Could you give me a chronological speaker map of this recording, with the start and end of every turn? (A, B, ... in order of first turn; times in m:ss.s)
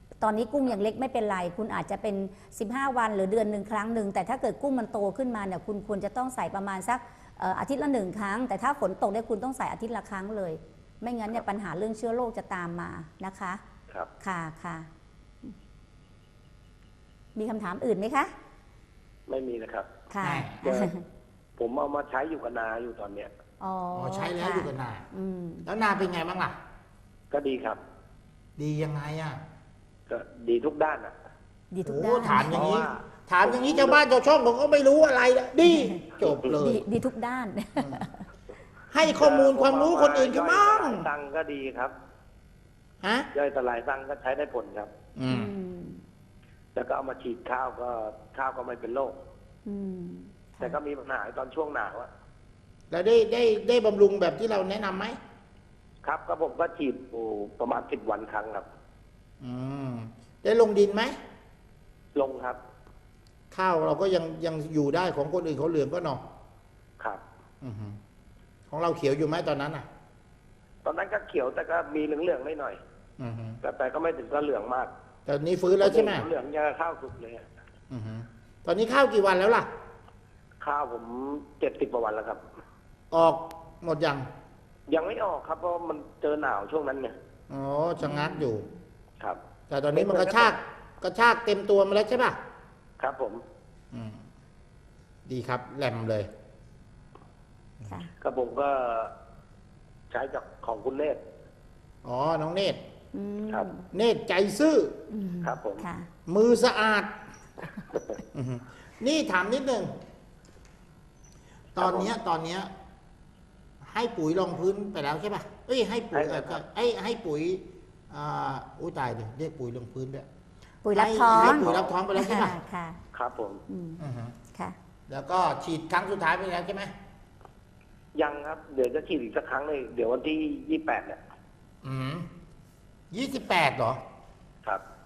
0:00.2-0:13.6 A
0:14.2-0:14.9 A
0:17.4-0:18.3 A
0:19.3-0:19.9 B
0:20.1-0:21.0 A
0:20.2-0:20.6 C
0:20.6-0:20.9 B
0:21.6-0:23.3 B
0:23.6-0:25.7 A
0:24.0-0:25.1 C
0:25.7-0:26.6 C
0:27.3-0:27.8 B
0:28.6-0:29.4 C
0:30.1-0:31.1 B
0:31.7-0:32.8 A
0:31.8-0:36.9 C
0:32.4-0:34.0 B
0:35.7-0:38.3 A
0:37.8-0:38.0 C
0:38.9-0:41.1 C
0:39.0-0:42.0 B
0:43.0-0:43.3 C
0:43.3-0:44.9 B
0:45.2-0:45.6 C
0:45.3-0:46.0 A
0:46.8-0:49.2 B
0:49.7-0:50.8 A
0:50.6-0:52.1 B
0:52.9-0:55.2 C
0:56.0-0:58.7 B
0:59.4-1:01.2 C
1:02.2-1:02.6 B
1:03.5-1:06.2 C
1:07.6-1:08.0 C
1:08.7-1:09.9 C
1:10.8-1:12.8 B
1:13.2-1:13.6 C
1:13.6-1:14.9 B
1:15.3-1:16.3 C
1:15.8-1:17.5 B
1:17.9-1:19.7 C
1:20.6-1:22.4 B
1:23.1-1:24.3 C
1:24.9-1:27.1 B
1:27.5-1:28.7 C
1:28.0-1:28.7 A
1:29.7-1:32.4 C
1:29.9-1:30.6 B
1:33.0-1:33.4 B
1:33.9-1:34.2 C
1:35.3-1:36.3 C
1:37.8-1:38.1 A
1:38.2-1:39.1 B
1:40.1-1:41.2 B
1:42.0-1:42.8 C
1:43.1-1:43.9 A
1:43.9-1:45.1 C
1:45.1-1:46.1 A
1:45.4-1:45.9 B
1:46.3-1:47.1 C
1:47.9-1:48.2 B
1:48.3-1:49.9 C
1:51.8-1:52.7 C
1:51.8-1:52.1 B
1:53.8-2:00.3 C
1:56.1-1:56.6 B
2:00.8-2:03.0 A
2:00.9-2:02.6 C
2:01.3-2:02.0 B
2:03.1-2:03.6 B
2:03.7-2:04.0 A
2:04.0-2:04.4 C
2:05.1-2:06.9 C
2:08.2-2:11.2 B
2:11.8-2:12.3 C
2:13.1-2:14.0 C